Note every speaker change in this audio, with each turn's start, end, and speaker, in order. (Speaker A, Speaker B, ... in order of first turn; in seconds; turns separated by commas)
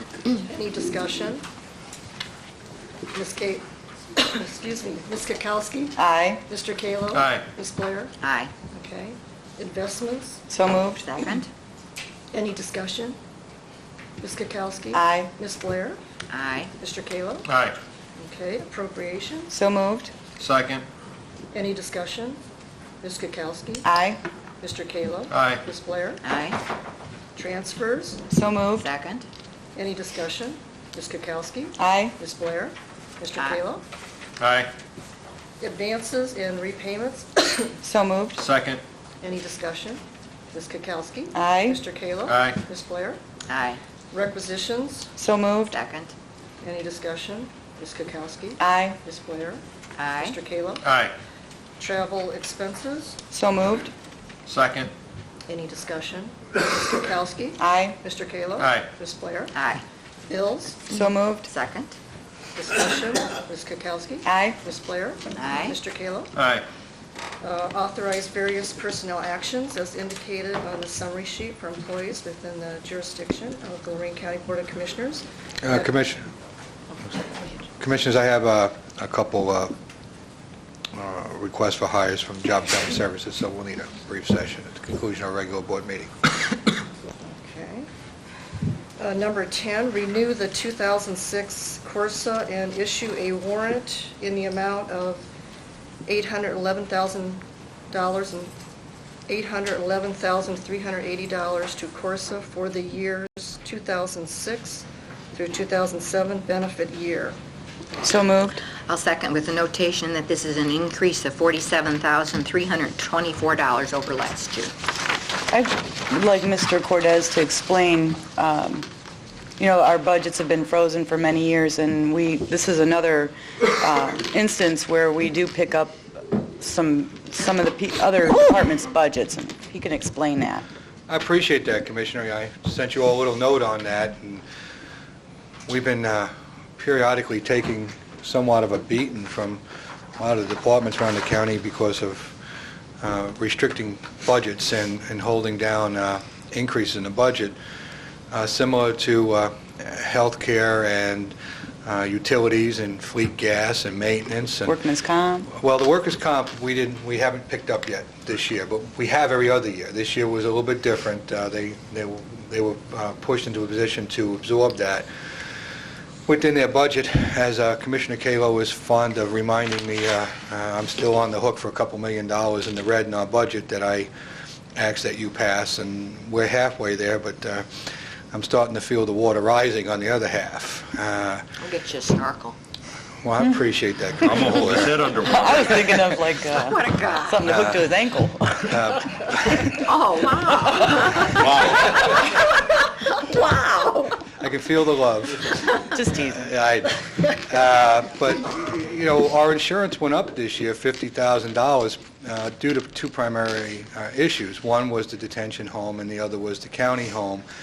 Speaker A: 0.3-1.4, Speaker A: 3.1-3.6, Speaker A: 4.2-8.1, Speaker B: 6.0-6.4, Speaker C: 7.1-7.4, Speaker D: 8.2-8.5, Speaker A: 8.7-10.4, Speaker B: 10.5-11.1, Speaker D: 11.0-11.5, Speaker A: 12.3-13.2, Speaker A: 14.2-16.0, Speaker B: 14.9-15.3, Speaker D: 16.3-16.7, Speaker A: 16.8-17.5, Speaker C: 17.4-17.8, Speaker A: 18.2-19.5, Speaker B: 19.5-20.1, Speaker C: 20.4-20.8, Speaker A: 21.5-22.4, Speaker A: 23.0-23.9, Speaker B: 23.8-24.2, Speaker A: 24.6-26.2, Speaker C: 25.3-25.6, Speaker D: 26.2-26.6, Speaker A: 27.3-28.2, Speaker B: 28.3-28.9, Speaker D: 28.8-29.3, Speaker A: 29.7-33.8, Speaker B: 31.8-32.1, Speaker C: 34.4-34.7, Speaker A: 35.6-37.8, Speaker B: 37.8-38.4, Speaker C: 38.4-38.8, Speaker A: 39.2-43.2, Speaker B: 41.3-41.8, Speaker C: 42.3-42.6, Speaker D: 43.5-43.8, Speaker A: 44.1-45.1, Speaker B: 45.2-45.8, Speaker D: 45.7-46.1, Speaker A: 46.6-49.6, Speaker B: 48.6-49.0, Speaker D: 50.0-50.4, Speaker A: 50.2-50.9, Speaker C: 50.8-51.1, Speaker A: 51.8-53.2, Speaker B: 53.3-53.9, Speaker C: 54.5-54.9, Speaker A: 55.5-59.5, Speaker B: 57.6-58.0, Speaker C: 58.6-58.9, Speaker D: 59.5-59.8, Speaker A: 60.3-60.8, Speaker B: 60.9-61.5, Speaker D: 61.5-61.9, Speaker A: 62.5-66.3, Speaker B: 64.2-64.6, Speaker D: 65.3-65.8, Speaker C: 66.3-66.7, Speaker A: 67.4-75.8, Speaker E: 75.6-76.3, Speaker E: 77.8-79.7, Speaker E: 80.9-86.1, Speaker A: 87.2-87.9, Speaker A: 89.0-95.2, Speaker A: 96.0-98.5, Speaker A: 99.3-107.4, Speaker B: 108.0-108.6, Speaker D: 108.8-114.7, Speaker B: 115.5-118.9, Speaker B: 119.6-130.7, Speaker E: 131.1-134.4, Speaker E: 135.7-139.6, Speaker E: 140.2-142.4, Speaker E: 143.0-147.6, Speaker E: 148.3-154.8, Speaker B: 154.7-155.5, Speaker E: 155.5-165.1, Speaker E: 166.2-174.1, Speaker E: 174.8-177.7, Speaker E: 178.3-181.4, Speaker D: 181.6-182.6, Speaker E: 183.2-185.1, Speaker C: 184.3-185.8, Speaker B: 185.1-188.9, Speaker D: 186.5-187.5, Speaker E: 187.4-187.9, Speaker E: 188.7-189.7, Speaker D: 189.7-192.4, Speaker C: 191.4-191.8, Speaker D: 193.5-194.0, Speaker E: 194.4-207.4, Speaker B: 195.9-196.4